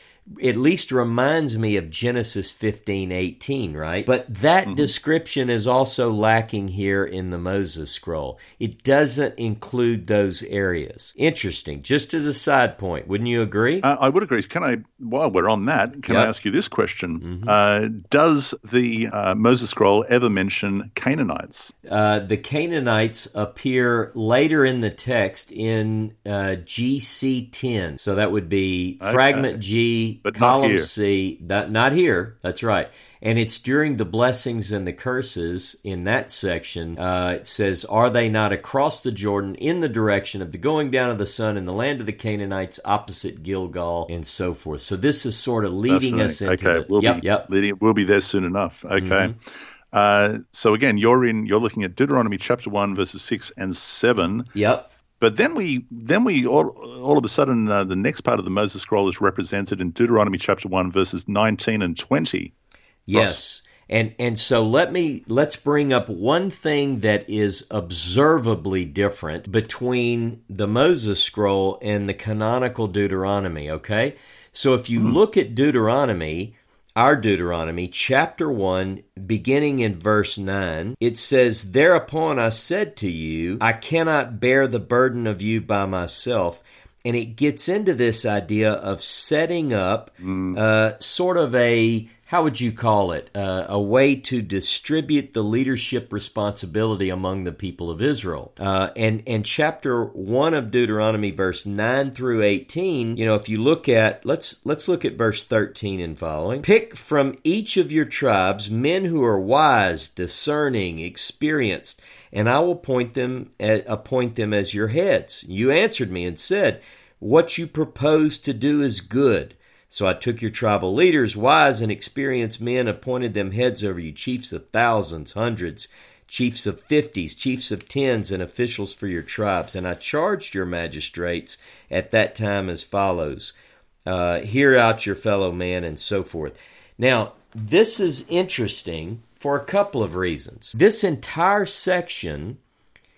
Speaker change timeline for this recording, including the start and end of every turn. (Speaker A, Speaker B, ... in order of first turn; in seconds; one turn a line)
Speaker A: 0.4-13.9
Speaker B: 4.7-4.9
Speaker B: 13.8-21.7
Speaker A: 17.2-17.5
Speaker A: 21.9-47.5
Speaker B: 29.0-29.5
Speaker B: 30.2-30.9
Speaker B: 45.9-49.4
Speaker A: 49.0-49.3
Speaker B: 49.9-54.5
Speaker A: 54.5-54.9
Speaker B: 55.2-62.5
Speaker A: 63.1-133.5
Speaker B: 63.1-63.4
Speaker B: 90.2-90.6
Speaker A: 134.1-142.6